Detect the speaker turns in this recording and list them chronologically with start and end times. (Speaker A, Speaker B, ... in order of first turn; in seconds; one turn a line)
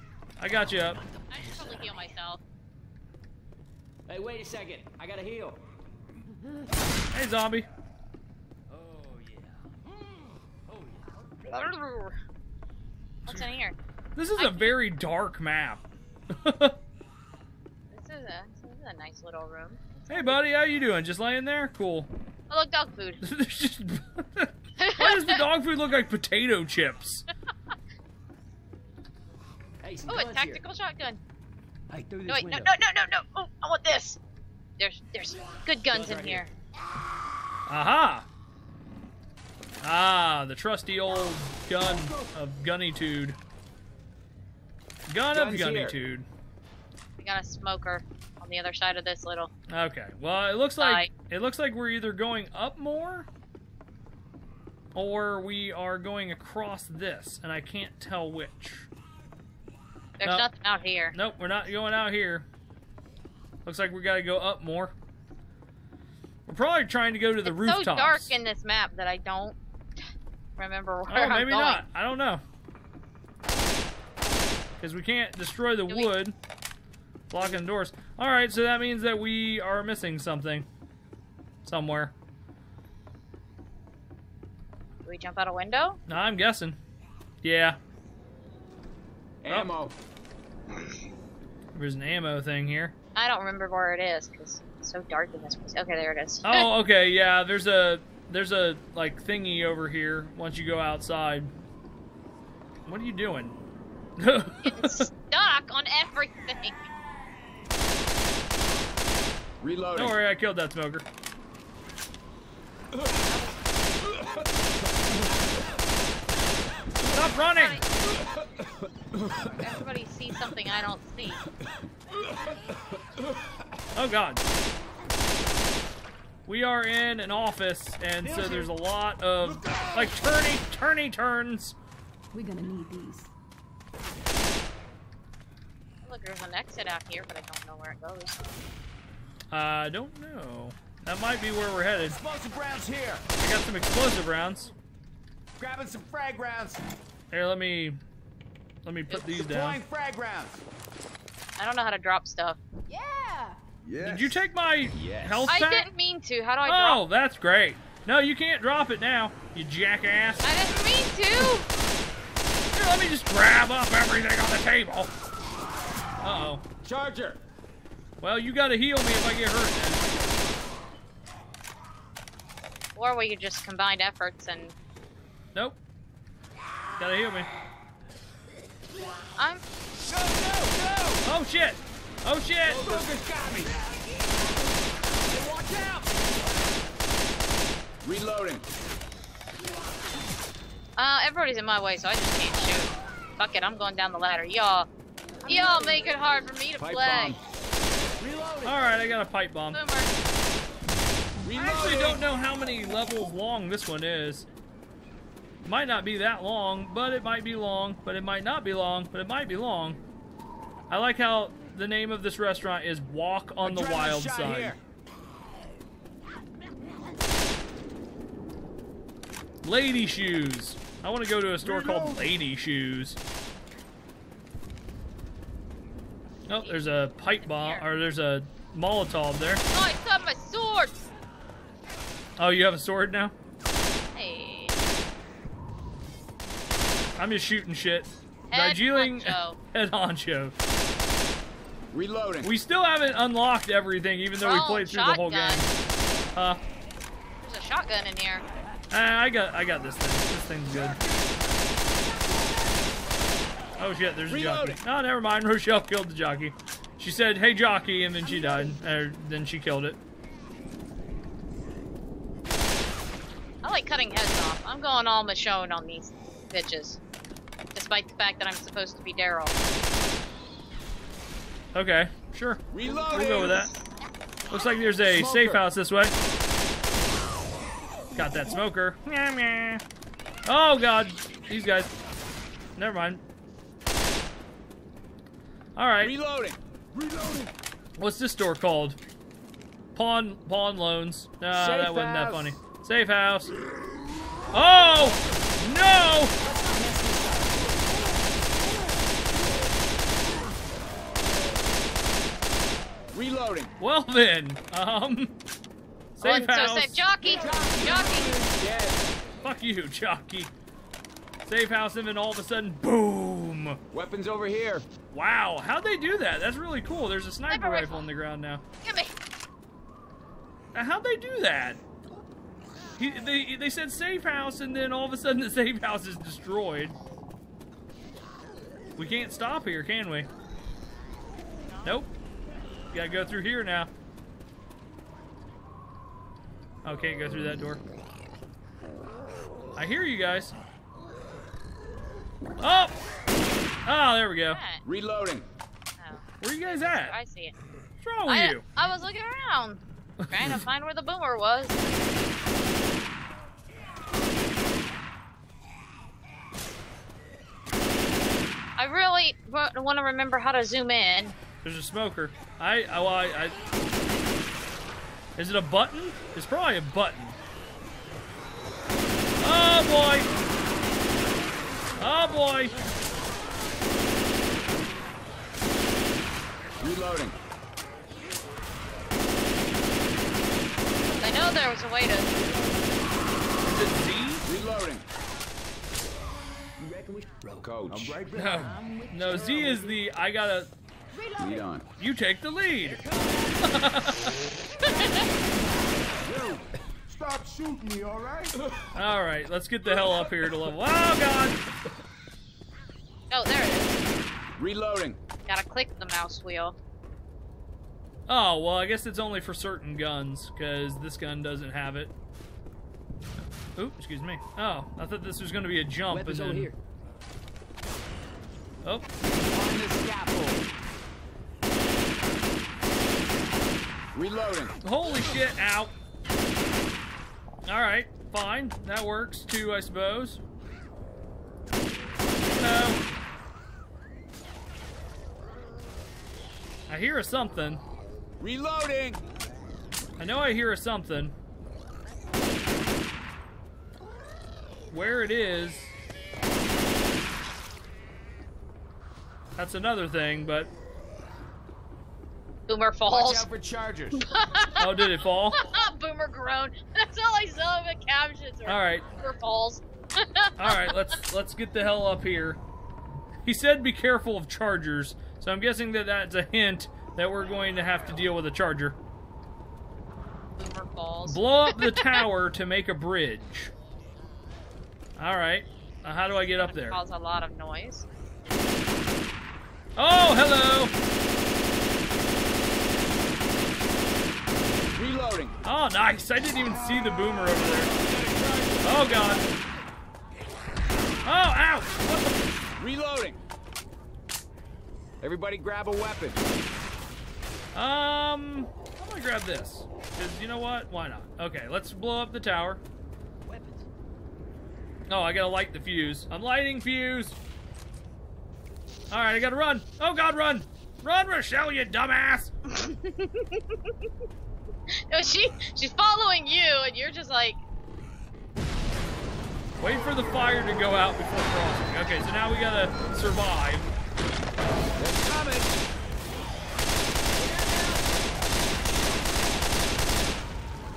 Speaker A: 0.4-1.0
Speaker B: 1.3-2.4
Speaker C: 4.1-5.6
Speaker A: 7.1-7.7
Speaker C: 8.7-9.1
Speaker D: 8.9-9.3
Speaker B: 11.4-12.2
Speaker B: 13.3-13.8
Speaker A: 14.2-16.8
Speaker B: 14.4-14.8
Speaker B: 17.9-20.4
Speaker A: 20.1-22.1
Speaker B: 22.5-23.2
Speaker A: 23.2-27.3
Speaker B: 24.8-25.4
Speaker C: 29.8-30.6
Speaker B: 30.1-31.2
Speaker C: 31.9-32.7
Speaker B: 32.3-34.2
Speaker B: 34.8-36.5
Speaker D: 35.9-36.5
Speaker A: 37.7-38.3
Speaker A: 39.8-43.4
Speaker A: 45.1-46.3
Speaker D: 45.3-46.0
Speaker B: 47.2-49.5
Speaker A: 49.7-53.3
Speaker B: 50.8-51.1
Speaker A: 55.0-58.9
Speaker B: 60.2-61.2
Speaker A: 61.1-62.5
Speaker A: 63.7-65.0
Speaker A: 66.5-68.4
Speaker B: 67.4-69.6
Speaker B: 70.6-71.8
Speaker A: 71.1-72.4
Speaker A: 74.8-76.3
Speaker A: 77.3-80.7
Speaker A: 81.7-82.1
Speaker B: 85.0-86.0
Speaker A: 86.1-86.8
Speaker A: 87.4-87.8
Speaker D: 89.4-89.9
Speaker A: 91.7-92.9
Speaker B: 93.2-96.7
Speaker A: 96.5-101.5
Speaker A: 102.9-103.5
Speaker A: 104.2-105.1
Speaker B: 104.7-106.9
Speaker D: 109.6-110.2
Speaker A: 110.0-111.0
Speaker B: 113.3-113.6
Speaker A: 117.0-117.8
Speaker B: 117.4-117.9
Speaker B: 119.5-121.4
Speaker A: 124.0-124.4
Speaker A: 126.5-131.8
Speaker D: 128.3-128.6
Speaker E: 129.4-130.2
Speaker F: 132.3-133.3
Speaker B: 136.0-138.6
Speaker A: 139.5-142.2
Speaker D: 142.1-143.2
Speaker A: 143.4-144.7
Speaker D: 145.6-146.8
Speaker A: 147.3-148.0
Speaker A: 148.8-149.8
Speaker D: 149.1-150.6
Speaker B: 151.6-152.6
Speaker F: 152.9-153.6
Speaker E: 153.8-154.5
Speaker A: 154.0-155.9
Speaker D: 154.9-155.5
Speaker B: 155.5-157.0
Speaker A: 156.7-160.4
Speaker B: 160.4-161.7
Speaker A: 162.7-165.1
Speaker A: 166.2-166.6
Speaker D: 166.8-167.4
Speaker A: 168.2-170.0
Speaker B: 173.0-174.8
Speaker A: 177.0-177.5
Speaker B: 179.4-179.6
Speaker D: 179.9-181.2
Speaker A: 181.2-183.1
Speaker D: 182.7-183.7
Speaker D: 185.3-186.1
Speaker D: 188.0-188.7
Speaker B: 191.0-194.9
Speaker F: 195.4-196.2
Speaker B: 195.5-197.4
Speaker D: 196.8-197.4
Speaker D: 198.2-198.8
Speaker A: 198.7-199.8
Speaker B: 199.7-200.1
Speaker D: 201.4-202.2
Speaker A: 201.5-204.5
Speaker A: 205.7-210.0
Speaker A: 210.9-214.8
Speaker D: 213.6-214.8
Speaker A: 219.6-223.2
Speaker E: 221.6-222.3
Speaker A: 226.5-229.6
Speaker B: 227.4-227.8
Speaker B: 229.7-231.1
Speaker A: 232.4-233.3
Speaker B: 234.1-234.8
Speaker A: 237.2-240.5
Speaker B: 238.5-239.6
Speaker D: 241.9-242.5
Speaker A: 242.4-245.7
Speaker B: 244.4-245.7
Speaker A: 246.3-246.6
Speaker B: 247.4-248.4
Speaker A: 248.9-251.0
Speaker E: 250.7-251.2
Speaker F: 252.0-252.9
Speaker A: 253.8-260.0
Speaker D: 254.3-254.8
Speaker F: 258.2-258.8
Speaker B: 263.6-267.0
Speaker B: 267.7-269.6
Speaker A: 271.7-273.7
Speaker D: 272.7-273.7
Speaker A: 274.5-276.1
Speaker D: 275.1-275.6
Speaker A: 278.1-279.8
Speaker A: 280.5-281.9
Speaker A: 282.8-283.2
Speaker A: 285.8-286.1
Speaker D: 286.0-286.6
Speaker E: 286.9-287.5
Speaker A: 288.0-289.0
Speaker A: 289.9-293.5
Speaker D: 291.5-292.6
Speaker A: 294.5-296.3
Speaker D: 303.1-303.7
Speaker A: 303.8-305.4
Speaker A: 306.2-307.0
Speaker B: 306.2-308.4
Speaker D: 307.2-309.1
Speaker A: 309.4-310.5
Speaker A: 311.4-313.8
Speaker D: 313.9-314.9
Speaker A: 315.1-318.6
Speaker B: 317.5-318.1
Speaker B: 318.8-319.1
Speaker A: 320.7-321.8
Speaker A: 323.0-326.9
Speaker A: 329.0-330.3
Speaker B: 331.6-332.1
Speaker A: 332.9-333.9
Speaker A: 336.9-337.8
Speaker A: 339.8-340.6
Speaker A: 342.6-342.9
Speaker A: 343.9-344.6
Speaker B: 344.5-344.8
Speaker D: 344.8-345.5
Speaker B: 346.0-347.6
Speaker A: 346.4-347.2
Speaker A: 348.0-348.6
Speaker B: 348.3-351.8
Speaker A: 350.2-350.6
Speaker B: 358.8-361.4
Speaker A: 361.6-363.6
Speaker A: 365.4-367.4
Speaker A: 369.4-370.3
Speaker A: 372.0-372.8
Speaker D: 376.8-377.4
Speaker F: 381.0-381.4
Speaker B: 381.2-382.3
Speaker A: 383.6-384.5
Speaker D: 384.4-385.1
Speaker C: 386.8-387.8
Speaker D: 387.6-388.2
Speaker E: 387.9-388.7
Speaker A: 388.3-390.7
Speaker C: 388.6-389.1
Speaker F: 389.0-390.0
Speaker F: 391.1-391.7
Speaker D: 391.4-391.9
Speaker A: 392.0-393.0
Speaker C: 392.9-393.8
Speaker A: 393.6-394.4
Speaker B: 394.8-395.3
Speaker E: 396.1-398.6
Speaker A: 398.9-401.6
Speaker B: 403.3-404.0
Speaker D: 404.6-405.2
Speaker B: 405.5-406.8
Speaker A: 408.3-412.1
Speaker A: 413.8-416.7
Speaker C: 416.1-416.8
Speaker D: 419.2-420.7
Speaker D: 424.1-424.8
Speaker A: 424.8-425.9
Speaker A: 427.7-430.4
Speaker A: 432.5-433.0
Speaker A: 436.9-437.8
Speaker D: 438.4-439.2
Speaker A: 440.2-441.4
Speaker A: 444.9-445.9
Speaker A: 449.6-450.7
Speaker B: 452.7-453.5
Speaker D: 453.1-454.2
Speaker B: 454.2-460.9
Speaker A: 454.8-455.6
Speaker A: 458.7-459.0
Speaker A: 460.6-462.6
Speaker A: 463.4-469.0
Speaker B: 470.6-472.3
Speaker A: 471.3-473.7
Speaker A: 475.2-477.0
Speaker B: 476.3-478.1
Speaker A: 480.0-480.9
Speaker D: 484.9-485.6
Speaker A: 485.6-487.9
Speaker D: 487.7-489.4
Speaker A: 488.8-489.5
Speaker A: 491.2-492.5
Speaker D: 492.8-493.4
Speaker D: 495.2-496.4
Speaker A: 497.7-502.8
Speaker C: 503.5-503.8
Speaker A: 505.1-507.4
Speaker A: 509.1-512.5
Speaker B: 512.7-513.8
Speaker B: 515.1-517.6
Speaker A: 519.8-523.9
Speaker D: 525.0-525.7